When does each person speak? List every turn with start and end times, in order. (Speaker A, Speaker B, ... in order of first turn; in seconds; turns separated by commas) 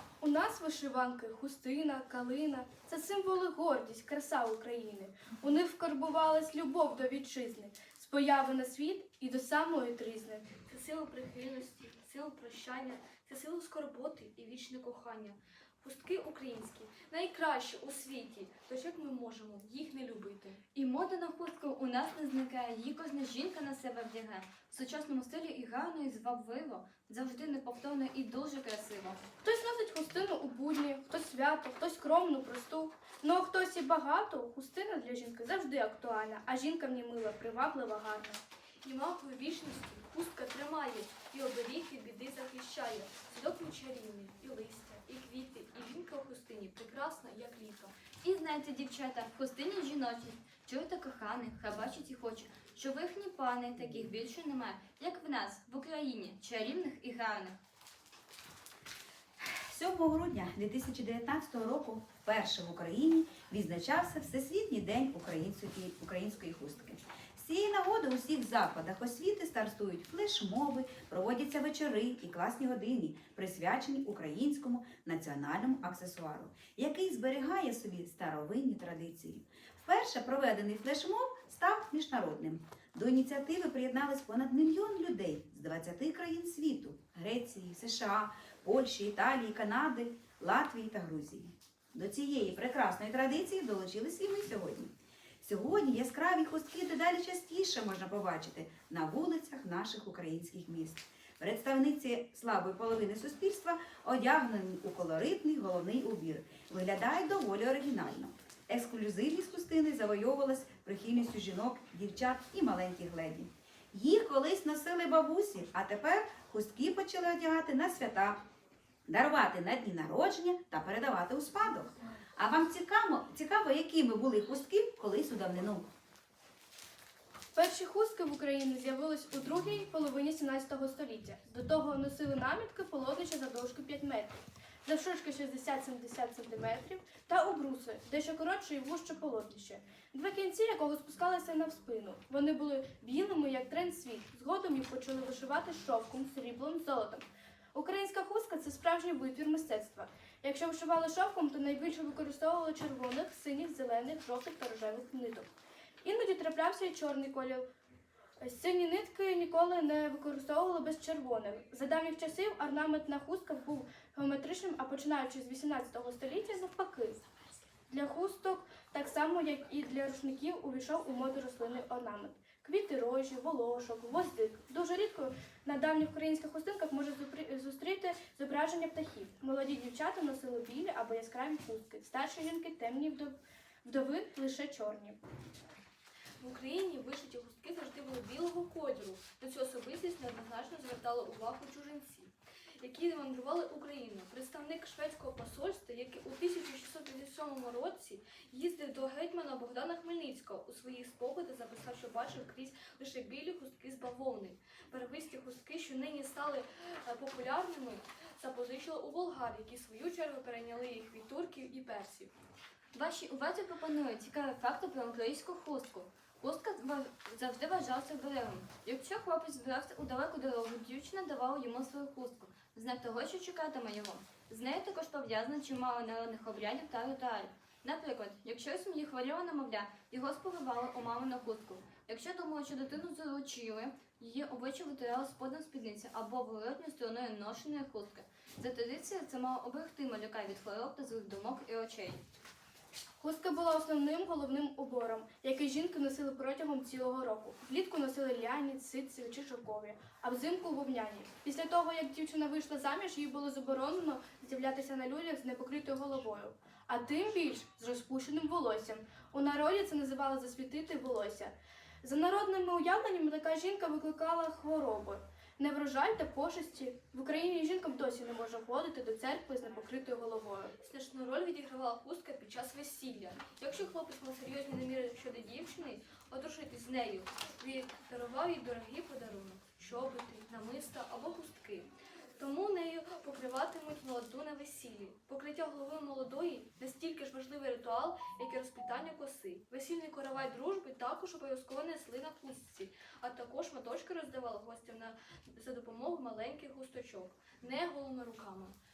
Speaker A: 0.2-10.5, Speaker B: 10.7-20.6, Speaker C: 20.7-29.2, Speaker A: 29.4-38.4, Speaker B: 38.8-47.9, Speaker C: 48.2-57.6, Speaker D: 59.4-118.4, Speaker D: 119.1-125.9, Speaker A: 127.5-155.5, Speaker A: 156.0-157.7, Speaker A: 158.4-167.2, Speaker A: 167.9-185.2, Speaker B: 186.4-212.3, Speaker C: 212.9-242.2, Speaker A: 243.2-270.7, Speaker B: 270.8-298.8